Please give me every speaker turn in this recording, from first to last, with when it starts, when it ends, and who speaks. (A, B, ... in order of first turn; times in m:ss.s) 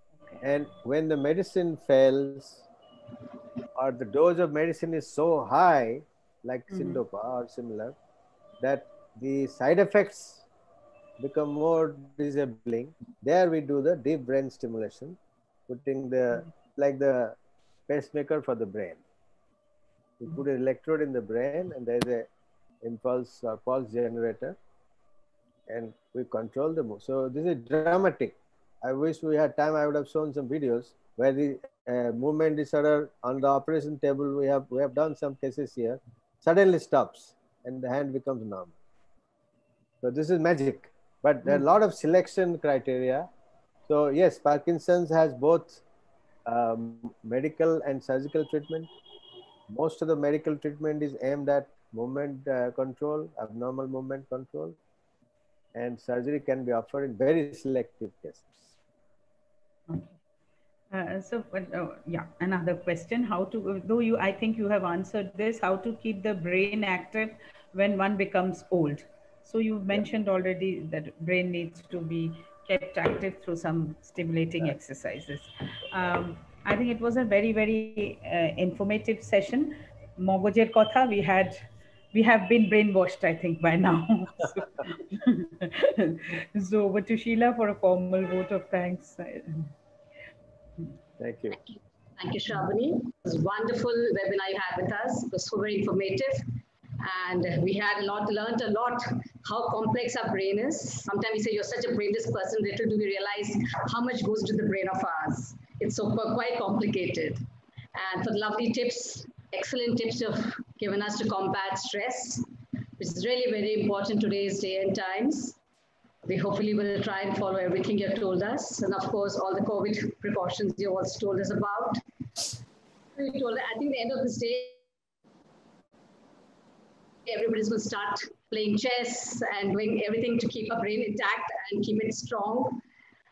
0:00.4-0:02.6 A
0:03.7-0:08.0 A
0:06.7-0:07.0 B
0:08.6-0:10.4 A
0:11.2-0:17.4 A
0:17.9-0:19.0 A
0:20.2-0:22.3 A
0:22.8-0:24.6 A
0:25.7-0:38.7 A
0:40.0-0:43.3 A
0:43.9-0:45.8 A
0:46.4-0:48.9 A
0:49.7-0:54.8 A
0:55.7-0:58.6 A
0:59.9-1:00.2 B
1:00.9-1:21.6 B
1:22.1-1:29.7 B
1:31.2-1:31.6 A
1:31.5-1:47.4 C
1:47.9-1:55.6 C
1:56.2-2:02.5 C
2:03.1-2:04.8 C
2:07.2-2:12.8 C